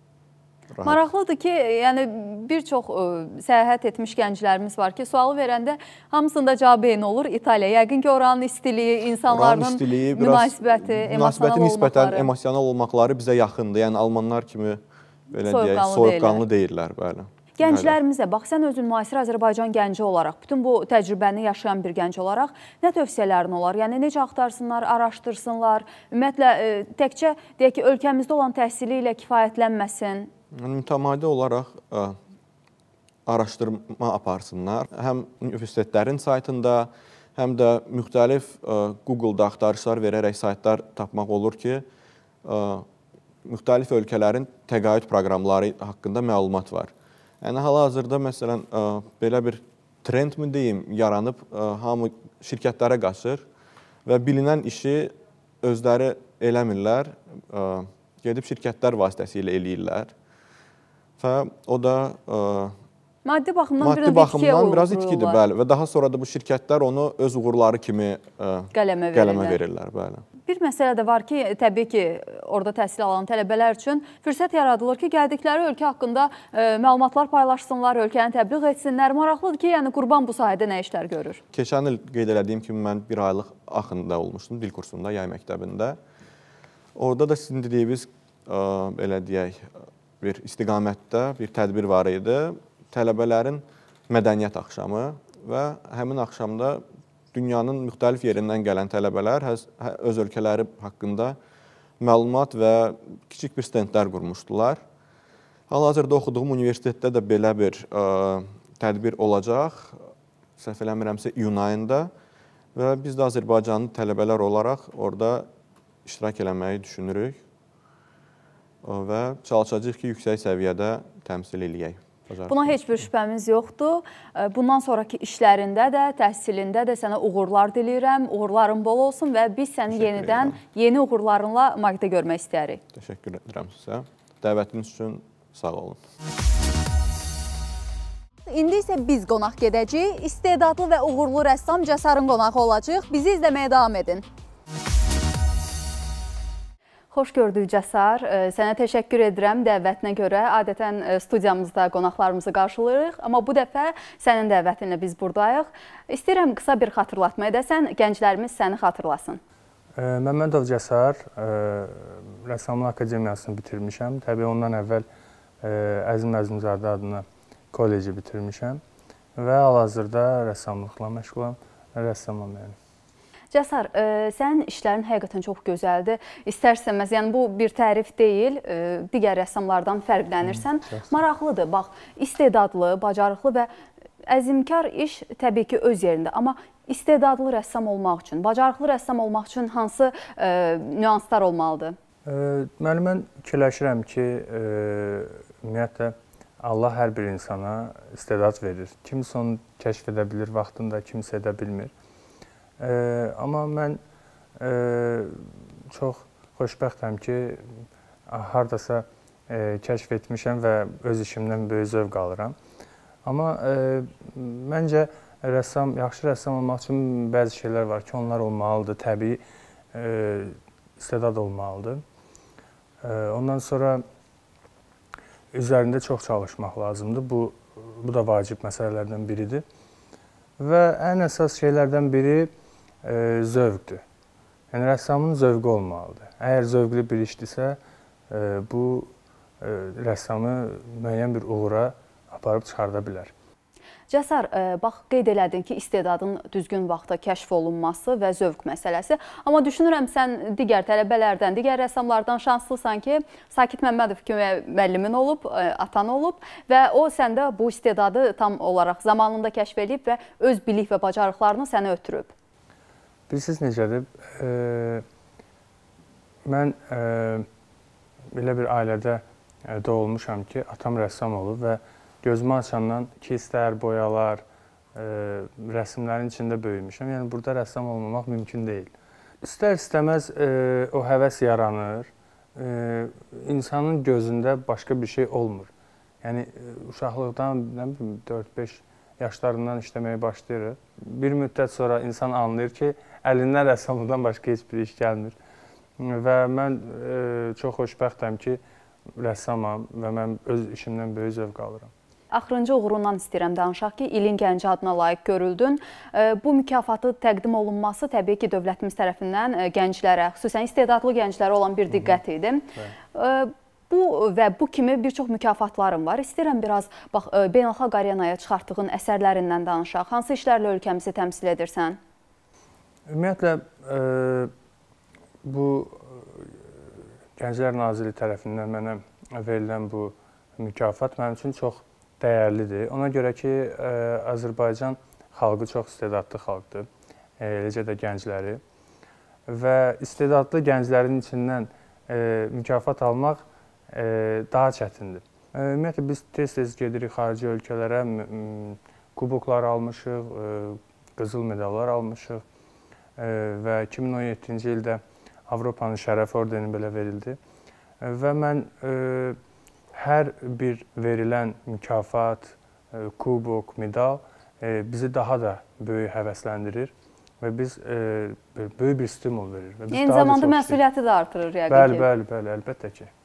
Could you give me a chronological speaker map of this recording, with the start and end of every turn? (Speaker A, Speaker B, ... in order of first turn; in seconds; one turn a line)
Speaker A: 0.7-1.0
Speaker B: 0.8-12.3
Speaker A: 9.3-18.0
Speaker B: 15.5-16.4
Speaker B: 17.6-30.3
Speaker A: 30.5-32.2
Speaker A: 33.3-41.9
Speaker A: 42.4-42.9
Speaker A: 43.5-53.5
Speaker A: 54.0-60.1
Speaker A: 61.2-62.8
Speaker B: 63.2-65.4
Speaker A: 63.8-70.2
Speaker B: 68.7-69.6
Speaker B: 70.5-81.4
Speaker A: 81.5-86.0
Speaker A: 87.0-101.4
Speaker A: 102.0-104.8
Speaker A: 105.7-110.0
Speaker A: 110.6-112.1
Speaker A: 112.8-115.5
Speaker A: 116.0-117.4
Speaker A: 118.8-122.8
Speaker B: 122.5-132.8
Speaker A: 129.9-130.6
Speaker A: 132.9-136.0
Speaker B: 138.5-144.2
Speaker B: 147.1-159.4
Speaker C: 160.0-165.1
Speaker C: 165.6-168.8
Speaker C: 169.4-172.8
Speaker B: 173.5-183.7
Speaker C: 180.4-181.1
Speaker B: 184.3-192.0
Speaker C: 192.3-201.9
Speaker C: 202.8-204.0
Speaker C: 204.6-207.6
Speaker C: 208.3-212.6
Speaker C: 213.2-219.4
Speaker C: 219.9-222.0
Speaker C: 223.0-224.0
Speaker C: 225.5-229.6
Speaker C: 230.6-232.5
Speaker C: 233.0-234.0
Speaker C: 234.7-237.8
Speaker C: 238.3-243.3
Speaker B: 244.1-262.3
Speaker C: 263.3-265.0
Speaker C: 266.5-267.5
Speaker C: 268.3-274.4
Speaker C: 275.0-285.7
Speaker C: 286.2-295.4
Speaker C: 296.0-298.6
Speaker C: 299.2-301.9
Speaker B: 302.3-322.0
Speaker C: 311.9-312.2
Speaker C: 323.1-324.5
Speaker C: 325.4-326.6
Speaker C: 327.4-336.9
Speaker C: 337.4-338.6
Speaker C: 339.5-352.4
Speaker C: 353.2-357.4
Speaker C: 358.0-359.4
Speaker C: 359.9-370.8
Speaker B: 369.9-372.1
Speaker C: 371.7-373.1